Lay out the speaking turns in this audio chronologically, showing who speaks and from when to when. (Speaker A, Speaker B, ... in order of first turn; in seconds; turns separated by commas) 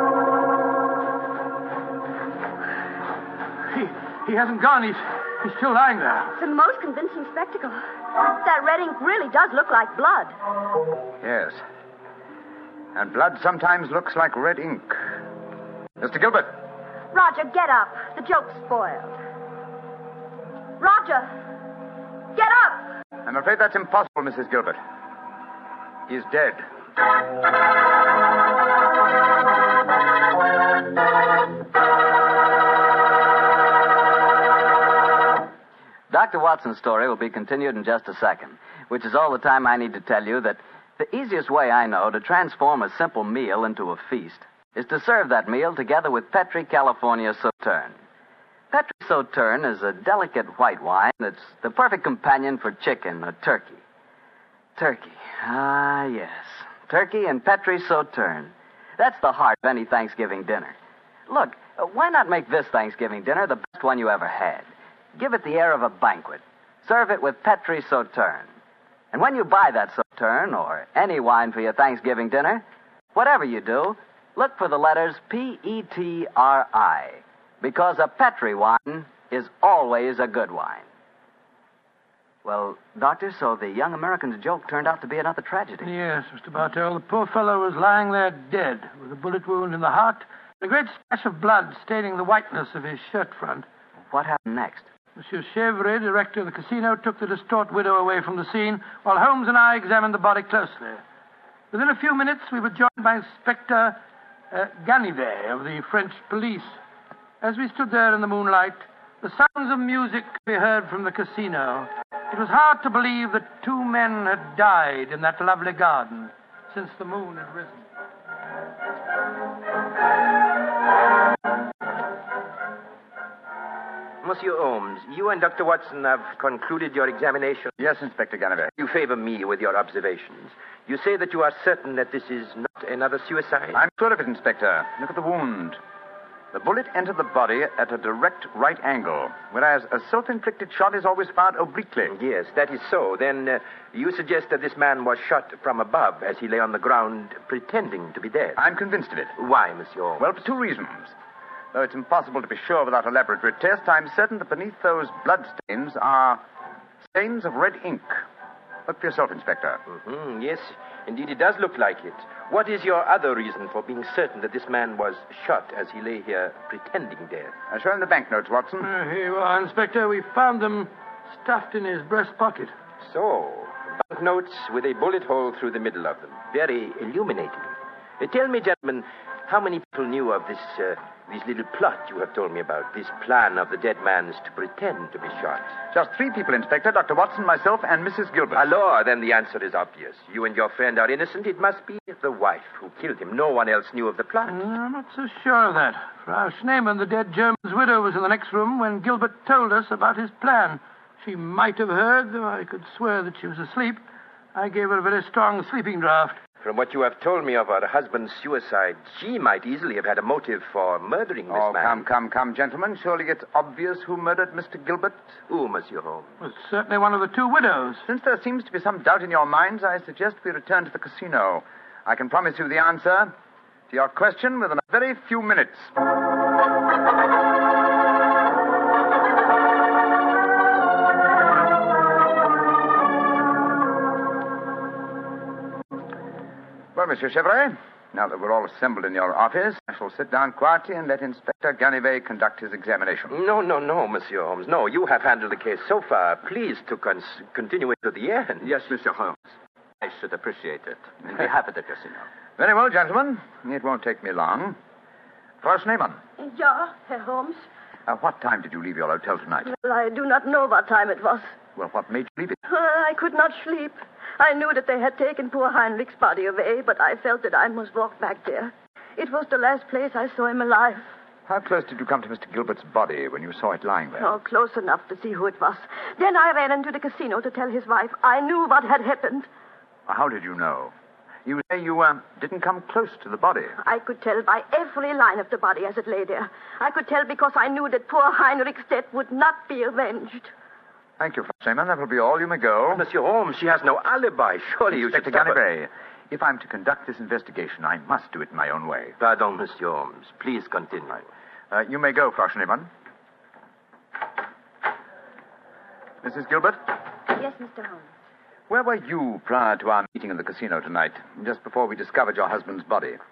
Speaker A: 3.7-6.3, Speaker B: 6.3-10.4, Speaker C: 11.2-11.6, Speaker C: 12.9-15.2, Speaker C: 16.0-16.6, Speaker B: 17.1-19.2, Speaker B: 20.8-21.4, Speaker B: 22.3-22.9, Speaker C: 23.2-24.8, Speaker C: 26.1-26.6, Speaker D: 36.1-48.0, Speaker D: 48.7-53.8, Speaker D: 54.8-60.8, Speaker D: 61.3-68.5, Speaker D: 69.1-72.6, Speaker D: 73.1-80.8, Speaker D: 82.4-85.9, Speaker A: 85.8-93.7, Speaker D: 94.1-94.9, Speaker A: 95.2-101.0, Speaker A: 101.7-104.0, Speaker A: 104.5-106.8, Speaker A: 107.4-117.8, Speaker E: 124.2-127.7, Speaker C: 127.8-128.7, Speaker E: 128.8-133.8, Speaker C: 133.7-135.8, Speaker C: 136.5-142.1, Speaker E: 142.1-148.6, Speaker C: 148.6-149.3, Speaker E: 149.3-150.3, Speaker C: 150.2-151.2, Speaker C: 151.7-156.4, Speaker C: 157.0-158.2, Speaker C: 158.9-159.8, Speaker E: 159.9-167.5, Speaker C: 167.7-168.9, Speaker A: 168.8-172.7, Speaker E: 173.0-185.7, Speaker C: 185.9-188.7, Speaker E: 188.5-194.6, Speaker A: 194.5-204.0, Speaker A: 204.5-206.4, Speaker E: 206.6-212.0, Speaker C: 211.5-215.4, Speaker E: 215.5-216.3, Speaker A: 216.4-218.0, Speaker C: 218.0-223.3, Speaker C: 223.9-225.9, Speaker C: 236.9-243.3, Speaker E: 243.3-248.8, Speaker F: 248.6-249.5, Speaker F: 250.0-252.3, Speaker C: 252.6-254.8, Speaker C: 255.6-256.2, Speaker G: 256.4-257.6, Speaker C: 258.1-259.7, Speaker G: 259.6-261.5, Speaker C: 261.8-262.6, Speaker G: 262.7-271.0, Speaker C: 271.5-274.3, Speaker G: 274.2-279.5, Speaker C: 280.1-280.9, Speaker C: 281.4-283.8, Speaker G: 283.8-290.5, Speaker C: 291.2-293.0, Speaker E: 292.9-295.6, Speaker C: 294.9-299.1, Speaker E: 299.2-301.2, Speaker C: 301.7-302.9, Speaker C: 306.2-306.9, Speaker B: 307.3-308.1, Speaker C: 308.7-313.2